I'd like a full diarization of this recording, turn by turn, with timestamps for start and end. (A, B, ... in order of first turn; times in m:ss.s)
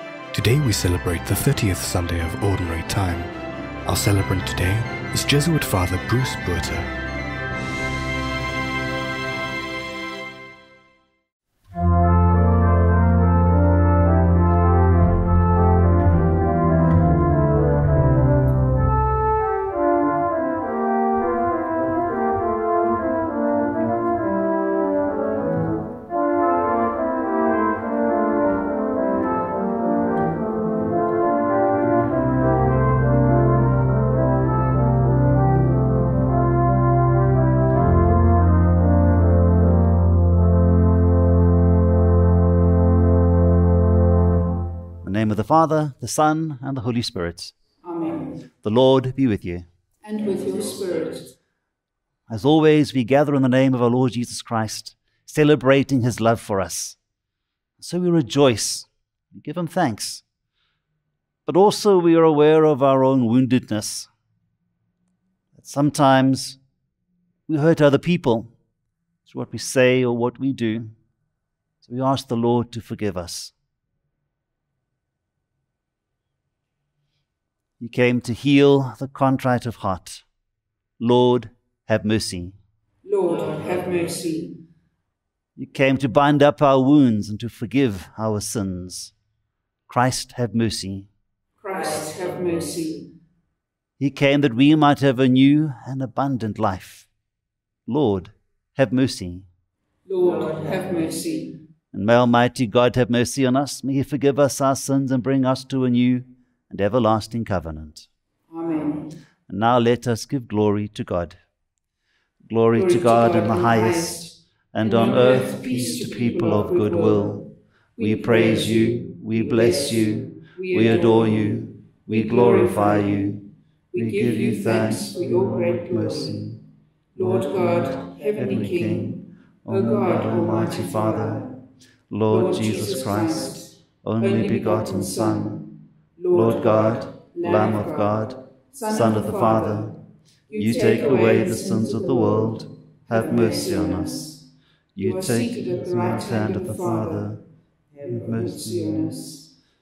0:00.3-0:03.3 A
0:03.8-0:06.9 A
0:45.0-0:47.5 B
0:47.8-0:48.4 C
0:48.6-0:49.6 B
0:50.0-0:51.3 C
0:52.3-0:57.0 B
0:57.8-1:00.2 B
1:01.4-1:04.1 B
1:05.5-1:06.6 B
1:07.5-1:08.5 B
1:09.2-1:10.9 B
1:11.8-1:13.5 B
1:17.8-1:20.2 B
1:21.0-1:22.6 B
1:23.0-1:24.6 C
1:25.6-1:29.1 B
1:29.9-1:31.1 B
1:31.6-1:33.1 C
1:34.0-1:37.1 B
1:37.9-1:39.5 B
1:40.0-1:41.6 C
1:41.9-1:48.1 B
1:48.5-1:49.1 C
1:49.5-1:51.4 B
1:52.5-2:06.6 B
1:52.7-1:57.4 C
1:58.0-2:03.4 C
2:03.9-2:06.4 C
2:07.1-2:11.5 C
2:07.2-2:11.5 B
2:12.1-2:15.6 B
2:12.3-2:20.0 C
2:16.3-2:20.0 B
2:20.5-2:24.4 C
2:20.5-2:24.4 B
2:25.0-2:27.4 B
2:25.0-2:27.3 C
2:28.0-2:29.3 B
2:28.0-2:29.5 C